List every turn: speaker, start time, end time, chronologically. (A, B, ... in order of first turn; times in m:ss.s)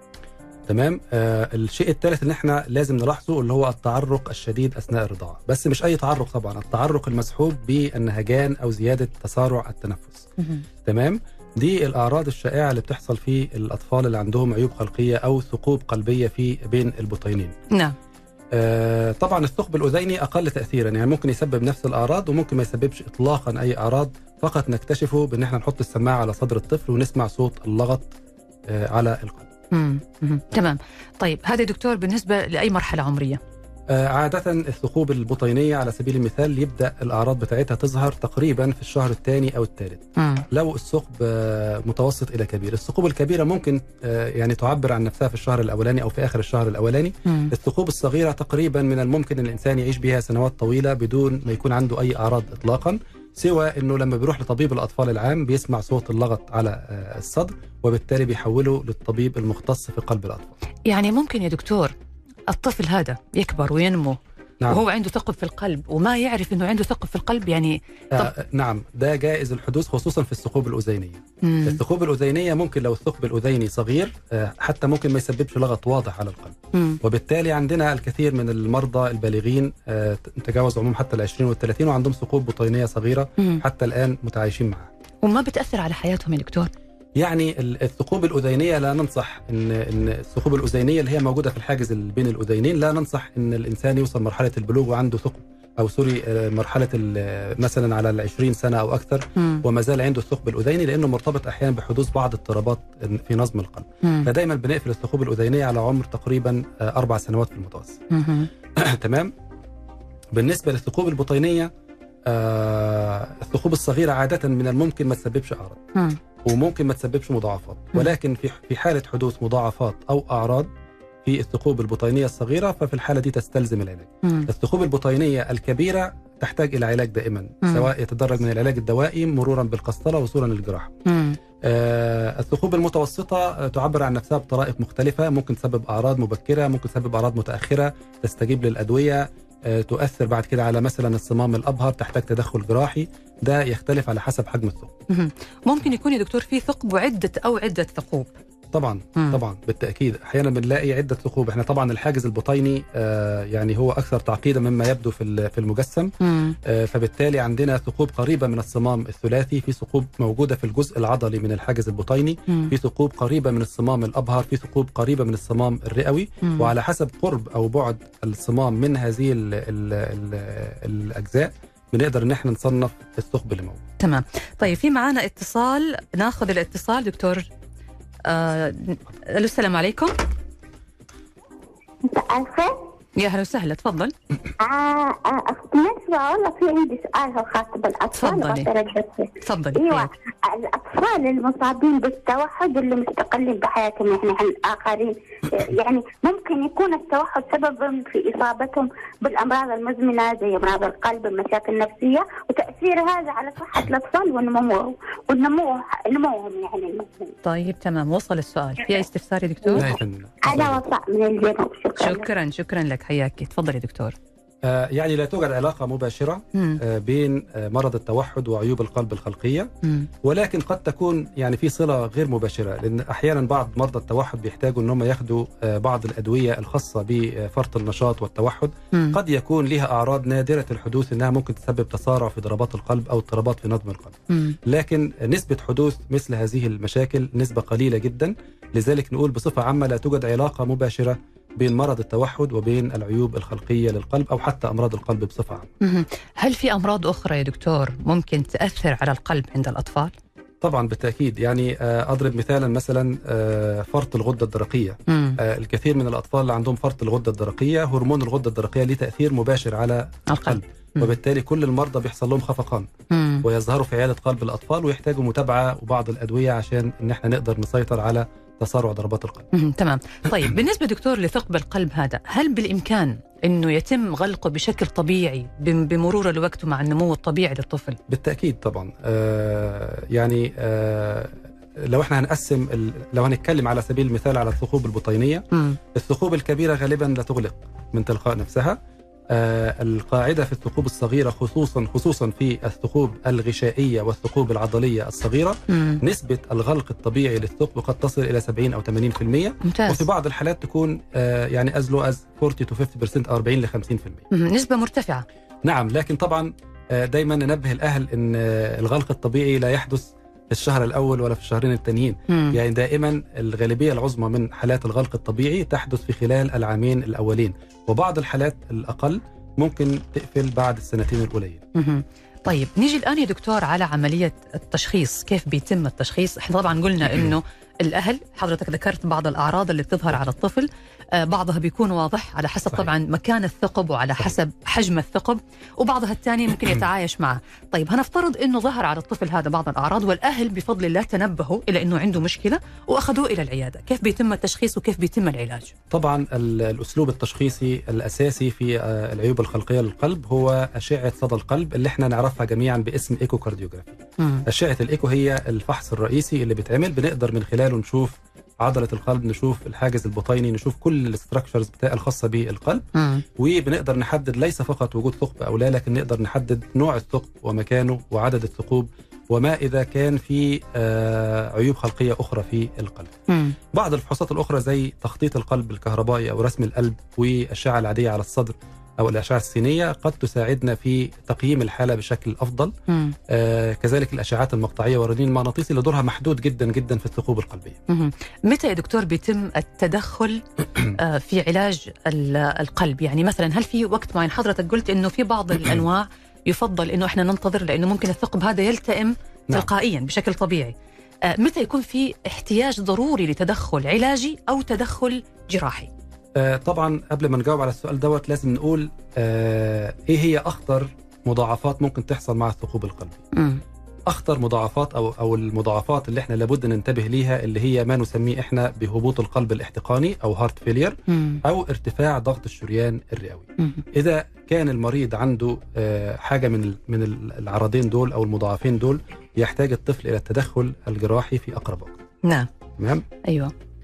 0:00.7-0:10.2 A
0:10.4-0:10.6 B
0:10.8-0:17.5 A
0:17.7-0:18.0 B
0:18.5-0:28.1 A
0:28.7-0:29.5 A
0:29.7-0:33.4 B
0:33.9-1:00.5 A
0:40.2-0:40.4 B
0:47.2-0:47.5 B
1:00.9-1:01.9 B
1:02.5-1:08.3 B
1:08.1-1:24.9 A
1:11.4-1:11.8 B
1:16.7-1:17.0 B
1:25.2-1:26.7 B
1:27.2-1:48.0 A
1:39.4-1:39.6 B
1:44.0-1:44.3 B
1:48.1-1:48.5 B
1:48.7-1:49.3 A
1:50.3-1:51.7 A
1:52.2-1:55.8 A
1:56.4-2:00.7 A
2:01.2-2:11.0 A
2:04.2-2:04.5 B
2:07.6-2:07.9 B
2:11.0-2:11.4 B
2:11.6-2:24.9 A
2:25.1-2:28.3 B
2:28.7-2:36.1 A
2:36.2-2:36.6 B
2:36.6-2:53.8 A
2:46.4-2:46.7 B
2:54.0-2:57.5 B
2:58.2-3:00.2 B
3:02.0-3:02.8 C
3:03.2-3:04.1 B
3:04.6-3:27.3 C
3:08.1-3:08.7 B
3:09.4-3:10.1 B
3:27.4-3:29.9 B
3:29.8-3:30.8 A
3:30.5-3:32.2 C
3:32.0-3:34.1 B
3:34.6-3:39.7 A
3:36.5-3:36.8 B
3:39.8-3:40.1 B
3:40.2-4:05.7 A
3:54.3-3:54.6 B
4:05.8-4:10.1 B
4:10.6-4:22.9 A
4:15.1-4:15.4 B
4:20.3-4:21.1 B
4:23.1-4:23.4 B
4:23.4-4:29.5 A
4:29.5-4:38.0 B
4:38.1-4:48.8 A
4:45.5-4:45.8 B
4:49.3-5:04.2 A
4:55.7-4:56.0 B
4:59.6-5:00.0 B
5:04.3-5:05.2 B
5:05.6-5:21.6 A
5:12.3-5:12.6 B
5:21.7-5:45.7 B
5:45.9-6:13.1 A
5:54.2-5:54.4 B
6:02.9-6:03.2 B
6:13.3-6:13.6 B
6:13.7-6:22.7 A
6:22.9-6:23.2 B
6:23.3-6:27.8 A
6:27.9-6:45.9 B
6:46.4-6:53.2 A
6:53.3-6:53.6 B
6:54.1-7:12.0 A
7:01.1-7:01.4 B
7:03.6-7:03.8 B
7:12.2-7:12.5 B
7:12.8-7:13.0 A
7:13.2-7:13.5 B